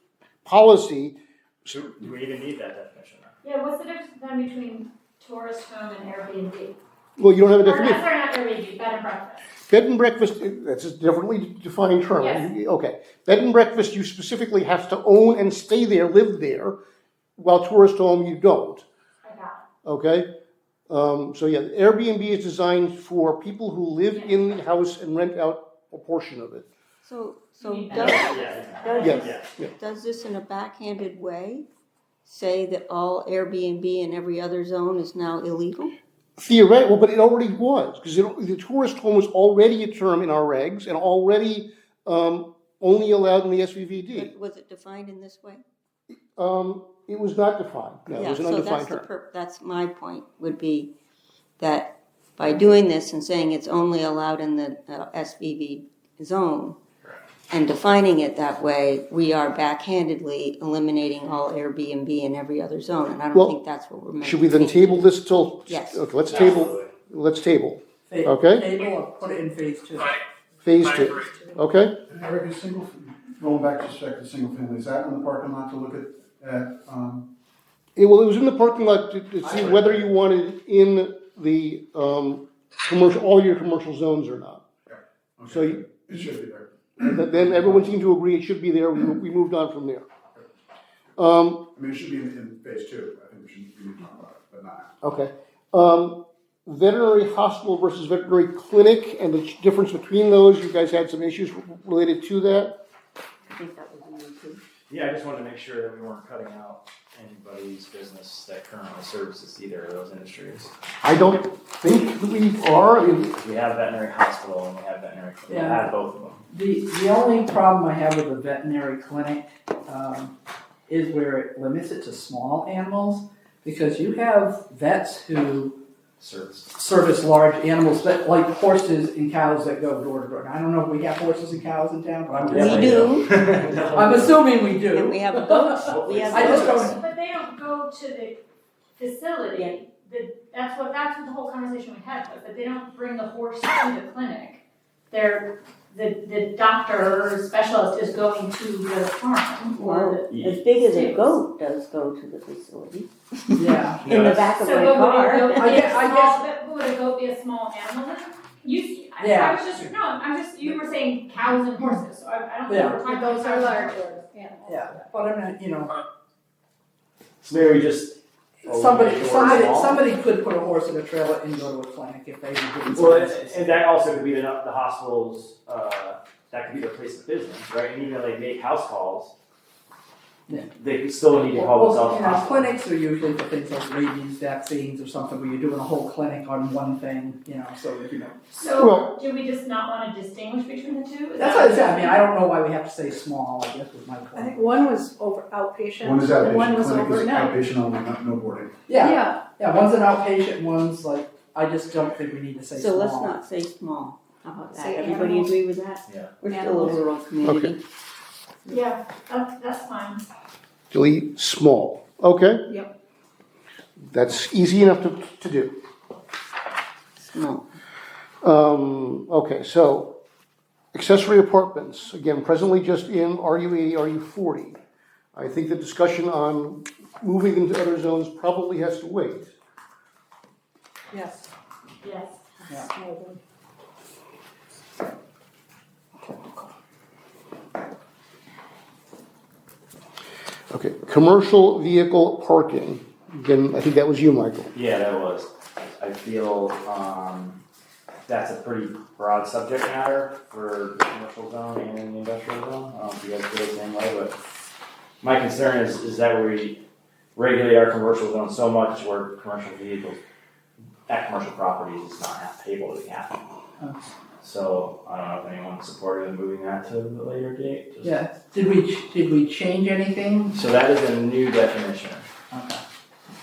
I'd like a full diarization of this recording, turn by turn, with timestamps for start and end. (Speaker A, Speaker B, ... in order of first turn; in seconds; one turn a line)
Speaker A: 0.5-1.9
Speaker B: 1.7-3.4
Speaker C: 3.4-6.8
Speaker A: 7.2-8.0
Speaker C: 7.6-9.4
Speaker A: 9.7-16.8
Speaker C: 12.2-12.5
Speaker A: 17.4-18.9
Speaker C: 19.2-19.6
Speaker A: 19.9-20.3
Speaker A: 20.9-26.7
Speaker D: 27.0-31.6
Speaker C: 27.6-29.1
Speaker B: 28.0-29.5
Speaker A: 29.0-29.7
Speaker D: 32.2-35.9
Speaker A: 36.4-44.3
Speaker D: 44.1-45.6
Speaker A: 46.4-49.0
Speaker D: 48.1-50.9
Speaker D: 51.6-56.8
Speaker D: 57.5-66.0
Speaker A: 63.3-63.6
Speaker A: 64.2-68.7
Speaker B: 66.3-66.9
Speaker E: 68.1-70.2
Speaker A: 70.6-72.0
Speaker F: 72.1-77.3
Speaker A: 78.0-84.6
Speaker E: 79.7-80.0
Speaker F: 84.9-87.9
Speaker A: 85.5-85.8
Speaker A: 87.0-90.1
Speaker A: 91.2-91.7
Speaker F: 91.8-94.9
Speaker A: 95.0-102.8
Speaker D: 103.5-104.6
Speaker B: 104.9-110.7
Speaker A: 111.0-113.3
Speaker B: 113.3-116.4
Speaker E: 115.5-115.8
Speaker E: 116.5-120.3
Speaker E: 120.9-125.8
Speaker B: 126.2-126.7
Speaker E: 126.7-133.2
Speaker B: 132.3-134.4
Speaker D: 132.6-134.0
Speaker E: 133.9-137.0
Speaker D: 134.5-137.0
Speaker B: 135.8-137.0
Speaker C: 136.9-138.4
Speaker C: 139.0-151.4
Speaker D: 149.8-156.0
Speaker B: 150.3-150.6
Speaker E: 153.6-154.0
Speaker B: 154.0-154.5
Speaker C: 154.6-164.1
Speaker E: 155.6-156.4
Speaker E: 159.2-159.7
Speaker E: 162.7-163.1
Speaker G: 163.1-165.0
Speaker E: 164.7-165.9
Speaker B: 167.4-170.0
Speaker E: 168.6-173.8
Speaker B: 172.9-179.3
Speaker B: 180.5-182.7
Speaker E: 181.5-188.6
Speaker C: 188.5-192.3
Speaker A: 188.8-189.1
Speaker E: 191.4-194.7
Speaker G: 194.4-197.6
Speaker F: 196.1-198.7
Speaker E: 198.9-203.4
Speaker G: 199.0-199.4
Speaker D: 202.7-207.8
Speaker G: 204.8-205.6
Speaker B: 206.1-206.3
Speaker G: 206.5-207.0
Speaker A: 207.4-207.7
Speaker C: 208.7-210.2
Speaker A: 210.9-212.6
Speaker A: 214.1-215.8
Speaker D: 217.2-217.7
Speaker A: 218.4-220.2
Speaker A: 220.9-224.8
Speaker A: 225.3-229.5
Speaker E: 231.1-231.5
Speaker C: 232.0-232.4
Speaker G: 232.9-233.4
Speaker A: 240.7-244.7
Speaker B: 244.7-247.6
Speaker B: 248.3-254.4
Speaker B: 255.2-256.8
Speaker B: 257.4-260.2
Speaker B: 261.1-263.4
Speaker B: 264.4-268.1
Speaker E: 268.0-270.6
Speaker B: 270.5-272.3
Speaker E: 272.5-272.8